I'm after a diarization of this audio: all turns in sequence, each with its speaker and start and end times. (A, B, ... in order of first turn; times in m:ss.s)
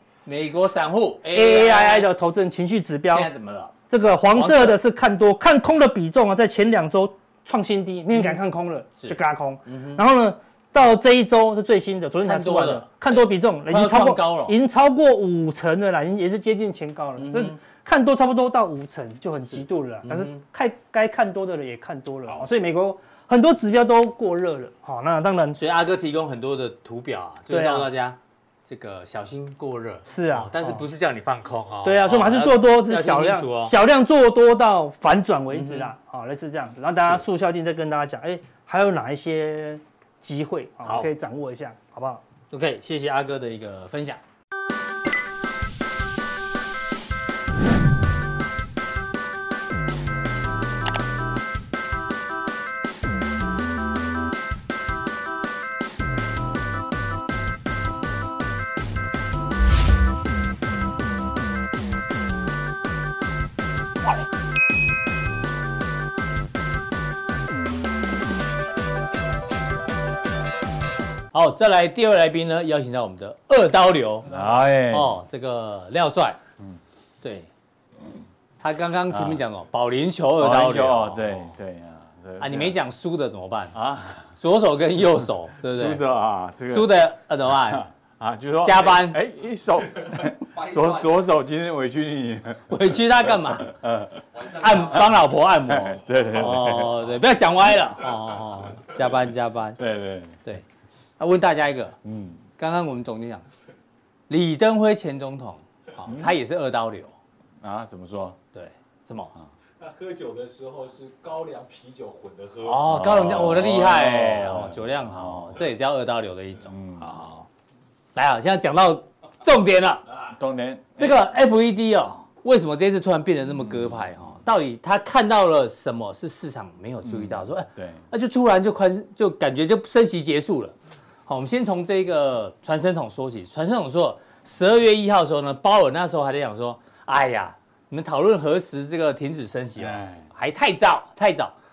0:00.2-0:02.1 A
0:01.3-0:03.3 B
0:03.1-0:03.7 A
0:03.9-0:25.6 B
0:04.3-0:04.8 A
0:09.7-0:10.0 A
0:12.2-0:14.6 A
0:17.2-0:17.6 A
0:19.5-0:20.4 A
0:25.6-0:33.7 A
0:27.5-0:27.9 B
0:30.1-0:30.8 B
0:31.8-0:42.2 B
0:35.5-0:35.9 A
0:42.5-0:44.2 A
1:11.3-1:14.3 A
1:14.3-1:15.2 C
1:14.9-1:16.4 A
1:17.2-1:17.5 A
1:18.6-1:21.5 A
1:19.1-1:19.4 C
1:20.4-1:22.8 C
1:22.4-1:23.8 A
1:23.7-1:24.3 C
1:24.4-1:26.0 A
1:25.7-1:27.0 C
1:26.7-1:27.9 A
1:27.7-1:35.1 C
1:28.6-1:29.2 A
1:32.7-1:33.8 A
1:34.4-1:39.8 A
1:35.7-1:37.1 C
1:39.8-1:40.4 C
1:41.2-1:42.0 A
1:42.0-1:42.4 C
1:42.6-1:43.4 A
1:44.3-1:47.1 A
1:46.0-1:46.3 C
1:47.6-1:48.4 C
1:48.5-1:49.3 A
1:49.8-1:52.9 D
1:52.6-1:57.5 A
1:52.9-1:55.7 C
1:56.7-1:57.2 C
1:58.2-2:00.1 A
2:00.3-2:01.2 C
2:01.0-2:10.7 A
2:07.0-2:08.0 C
2:11.3-2:21.5 A
2:19.8-2:20.3 C